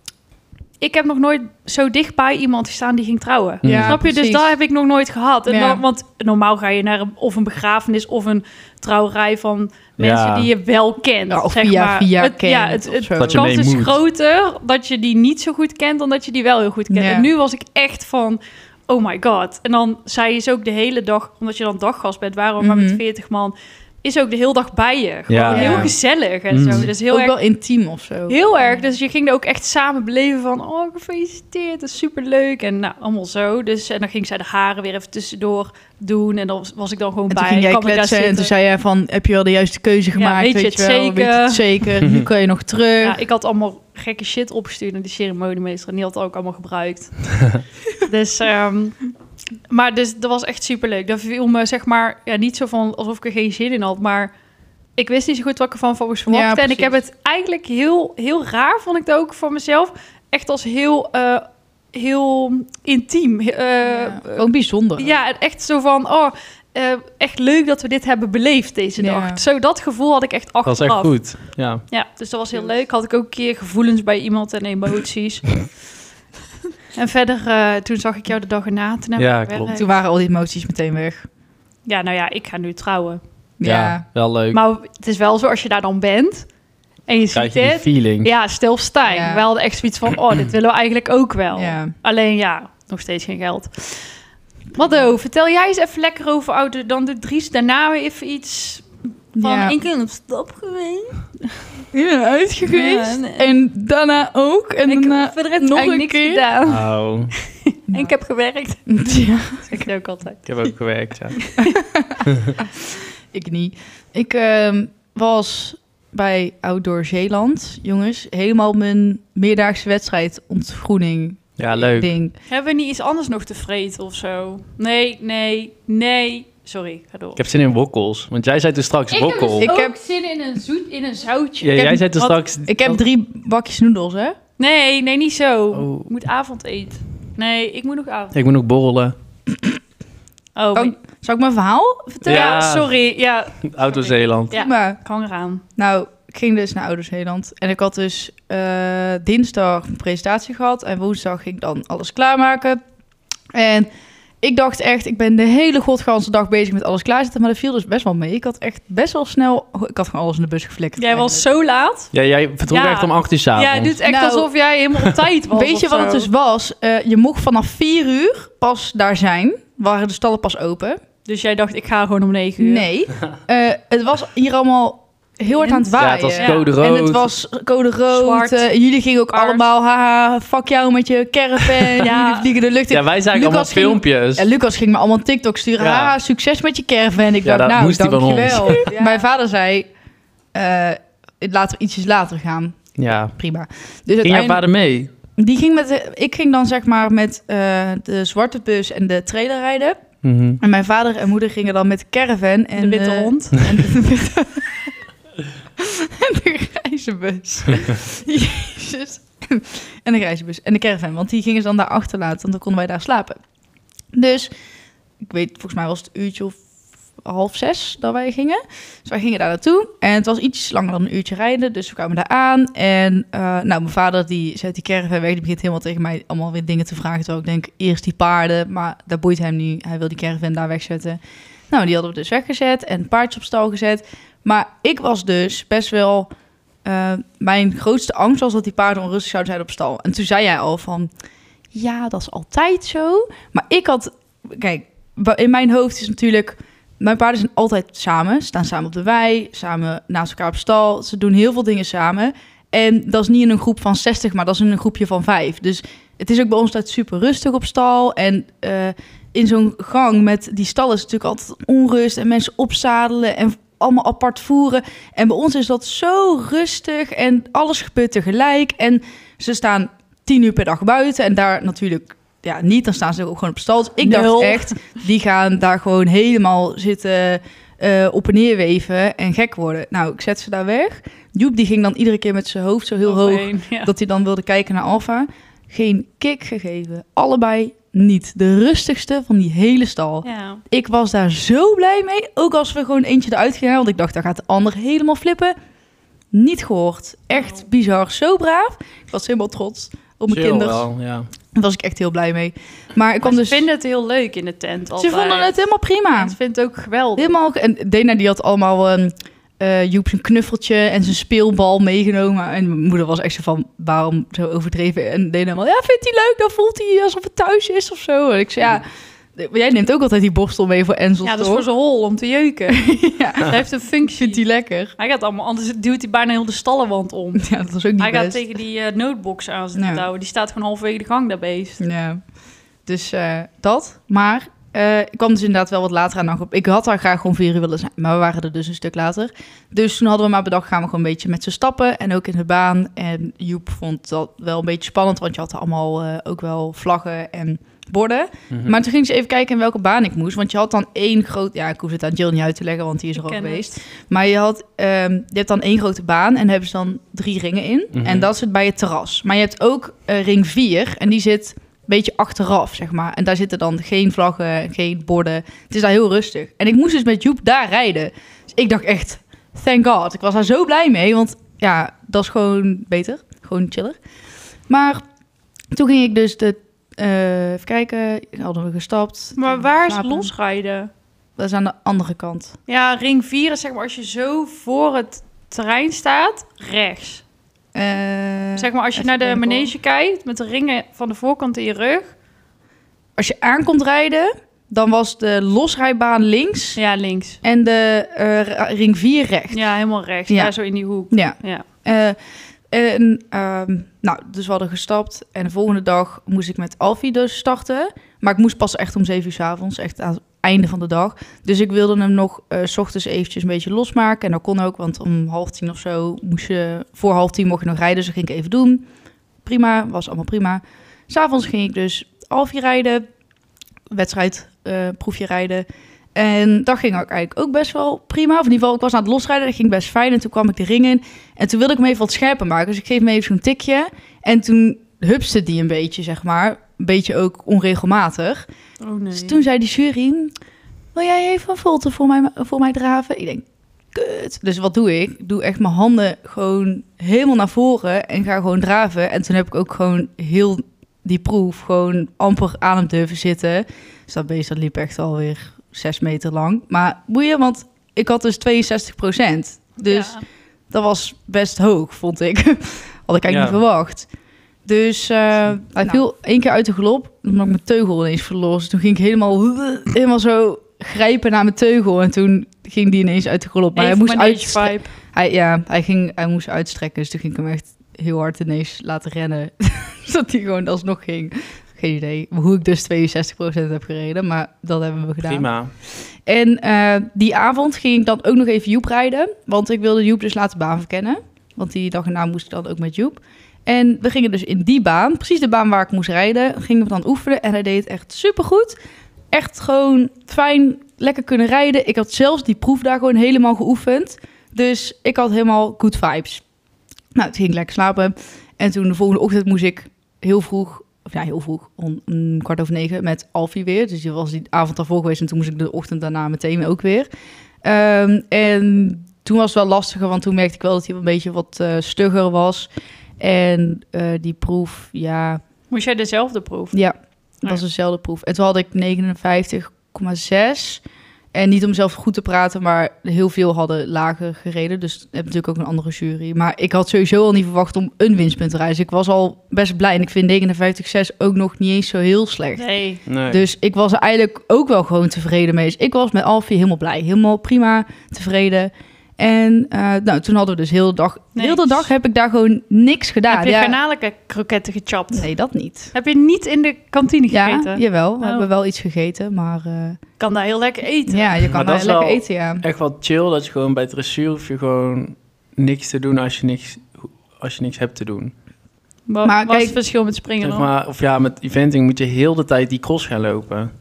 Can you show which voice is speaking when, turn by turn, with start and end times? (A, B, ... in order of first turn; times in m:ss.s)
0:00.8-0:27.3 A
0:03.6-0:04.0 B
0:03.6-0:04.5 C
0:05.5-0:05.8 C
0:10.0-0:10.5 B
0:11.3-0:13.5 C
0:13.2-0:14.0 B
0:16.9-0:17.3 C
0:22.6-0:23.0 C
0:25.3-0:25.9 B
0:25.5-0:25.9 C
0:26.5-0:26.9 B
0:26.7-0:28.8 C
0:28.3-0:38.5 A
0:37.3-0:43.2 C
0:40.1-0:41.6 A
0:43.0-0:47.3 A
0:48.0-0:49.0 A
0:49.7-0:54.3 A
0:55.0-1:04.4 A
0:56.3-0:57.0 C
1:03.8-1:05.2 C
1:05.0-1:11.3 A
1:09.0-1:09.4 C
1:10.6-1:11.8 B
1:11.9-1:15.7 A
1:16.9-1:19.9 A
1:19.2-1:19.7 B
1:19.7-1:21.3 C
1:21.8-1:23.2 A
1:23.6-1:24.0 C
1:23.6-1:24.6 B
1:24.5-1:26.5 A
1:27.1-1:34.1 A
1:27.3-1:28.3 B
1:29.0-1:29.4 C
1:31.5-1:31.9 C
1:34.7-1:38.8 A
1:39.4-1:39.8 C
1:39.4-1:41.5 A
1:41.9-1:46.4 C
1:42.7-1:43.5 A
1:44.8-1:46.9 A
1:46.6-1:47.3 B
1:47.6-1:48.8 A
1:48.9-1:49.9 C
1:49.6-1:50.4 A
1:50.4-1:51.4 B
1:51.4-1:51.8 A
1:51.6-2:02.3 C
2:01.6-2:02.1 B
2:02.5-2:07.4 A
2:07.4-2:09.7 B
2:09.1-2:12.4 A
2:09.6-2:09.9 C
2:11.6-2:13.0 B
2:11.7-2:12.1 C
2:12.6-2:14.4 C
2:14.6-2:18.3 A
2:15.7-2:16.1 B
2:18.3-2:19.1 B
2:20.6-2:20.9 A
2:20.7-2:22.6 C
2:22.2-2:22.9 B
2:22.2-2:25.6 A
2:23.7-2:24.5 B
2:24.5-2:25.0 C
2:25.8-2:32.8 C
2:33.5-2:33.9 C
2:34.4-2:41.4 C
2:41.0-2:42.1 A
2:42.1-2:44.0 B
2:42.7-2:46.3 A
2:44.0-2:44.5 C
2:45.5-2:51.0 C
2:51.2-2:52.8 A
2:52.6-3:09.9 C
2:55.5-2:56.7 A
2:56.0-2:57.3 B
2:58.1-2:58.6 A
2:59.3-2:59.7 A
3:02.0-3:02.5 A
3:02.9-3:04.5 B
3:05.8-3:06.1 B
3:07.4-3:08.8 B
3:08.7-3:09.2 A
3:10.5-3:14.6 C
3:13.0-3:13.3 B
3:14.2-3:15.1 B
3:15.4-3:20.0 C
3:20.2-3:20.6 B
3:20.6-3:24.9 C
3:22.8-3:23.6 A
3:25.8-3:33.4 C
3:34.1-3:34.5 C
3:35.2-3:36.6 C
3:37.2-3:51.2 C
3:51.7-3:56.3 C
3:56.8-4:01.1 C
4:01.7-4:55.5 C
4:34.0-4:34.8 A
4:43.0-4:43.9 A
4:50.2-4:50.6 A
4:56.3-5:00.8 C
4:57.3-4:57.6 A
5:00.3-5:01.2 B
5:01.5-5:03.6 C
5:03.2-5:07.3 A
5:05.0-5:06.4 C
5:07.2-5:21.6 C
5:21.2-5:22.8 A
5:22.7-5:24.9 C
5:23.4-5:24.4 A
5:25.0-5:27.5 A
5:27.4-5:28.4 C
5:28.0-5:31.8 A
5:29.7-5:30.0 C
5:31.8-5:32.2 C
5:32.8-6:14.0 C
5:53.1-5:53.8 A
5:57.9-5:58.3 B
6:14.7-6:15.0 C
6:15.7-6:20.3 C
6:19.4-6:20.9 A
6:21.4-6:22.6 C
6:22.7-6:27.2 A
6:27.7-6:29.7 C
6:28.6-6:32.1 A
6:33.2-6:36.8 C
6:36.8-6:37.4 A
6:37.4-6:39.6 C
6:39.5-6:41.6 A
6:41.1-6:42.2 C
6:42.7-6:58.8 C
6:59.4-7:03.0 C
7:03.9-7:18.4 C
7:18.8-7:19.4 A
7:19.1-7:20.3 C
7:20.9-7:40.2 C
7:39.8-7:40.2 A
7:40.7-7:44.1 C
7:43.3-7:43.6 B
7:44.6-8:05.5 C
7:53.7-7:54.9 A
8:05.2-8:05.7 B
8:06.2-8:18.8 C
8:19.3-8:26.4 C
8:27.1-8:37.1 C
8:37.6-8:45.4 C
8:45.7-8:46.8 A
8:46.7-8:50.8 C
8:51.3-9:02.6 C
9:02.6-9:03.0 A
9:03.1-9:03.4 B
9:03.3-9:13.8 C
9:11.3-9:11.9 A
9:13.3-9:15.3 A
9:15.1-9:15.9 C
9:15.9-9:18.5 A
9:17.3-9:20.0 C
9:20.2-9:21.4 A
9:21.1-9:22.6 C
9:21.5-9:28.3 B
9:29.1-9:30.7 A
9:29.2-9:29.8 C
9:30.4-9:33.7 B